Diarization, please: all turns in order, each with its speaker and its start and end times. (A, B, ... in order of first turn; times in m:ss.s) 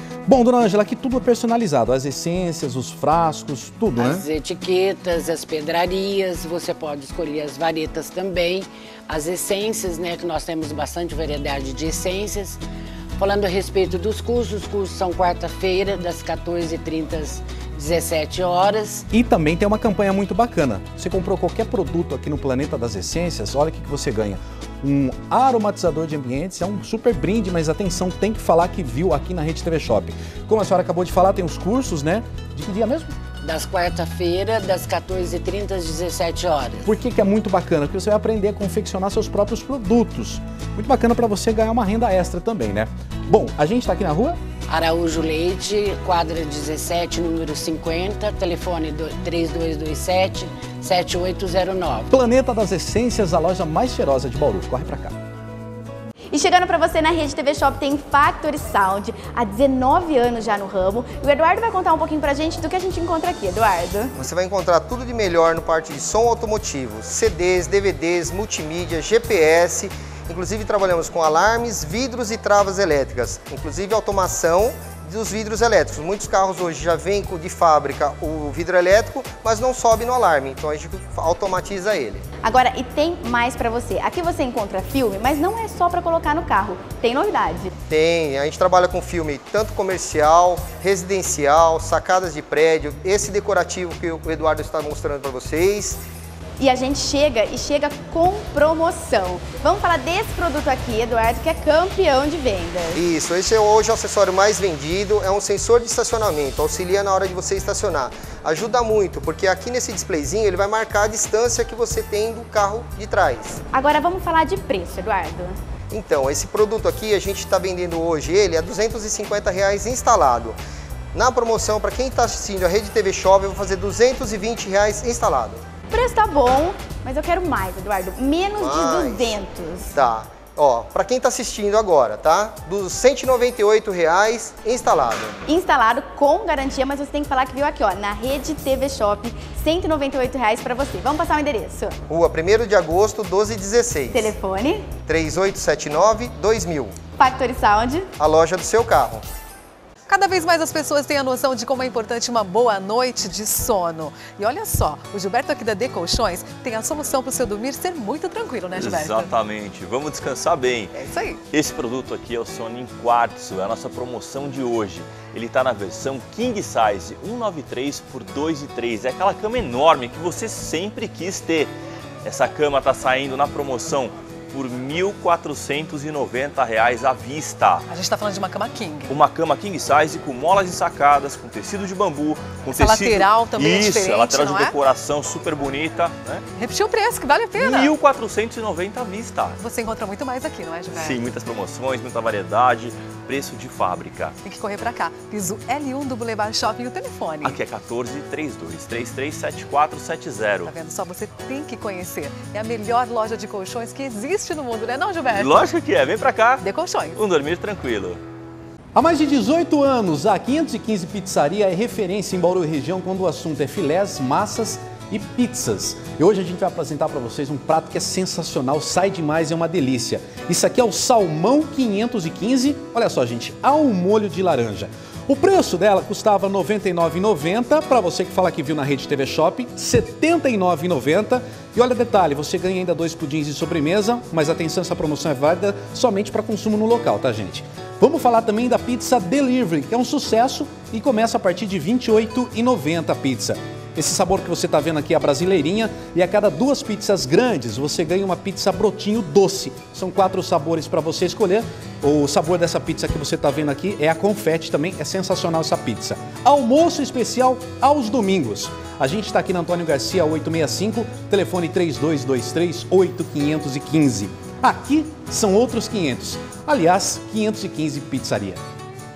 0:00.2-0:04.2 A
0:04.0-0:12.6 B
0:13.2-0:19.0 B
0:19.1-0:33.1 A
0:33.4-0:36.8 B
0:36.8-0:44.4 A
0:44.7-0:52.1 B
0:52.1-0:55.2 A
0:56.3-1:04.1 C
1:04.2-1:22.2 D
1:22.4-1:27.7 C
1:27.9-1:36.0 D
1:36.6-1:43.0 C
1:42.9-1:53.6 D
1:53.7-1:55.6 C
1:55.9-2:00.6 D
2:01.1-2:05.6 D
2:05.9-2:09.9 C
2:08.6-2:09.4 D
2:09.9-2:15.4 D
2:15.5-2:21.9 C
2:22.1-2:24.3 D
2:24.1-2:24.9 C
2:25.0-2:27.0 D
2:27.2-2:28.1 C
2:28.2-2:29.2 D
2:30.1-2:39.3 E
2:38.7-2:41.0 F
2:40.9-2:41.4 E
2:41.5-2:57.8 F
2:57.9-2:59.1 E
2:59.1-3:06.4 F
3:02.7-3:04.8 E
3:06.6-3:07.9 E
3:07.6-3:09.6 F
3:09.6-3:11.2 E
3:10.9-3:14.4 F
3:14.4-3:17.6 E
3:17.4-3:20.7 F
3:20.6-3:25.6 E
3:25.3-3:28.2 F
3:26.6-3:27.2 E
3:28.9-4:28.6 A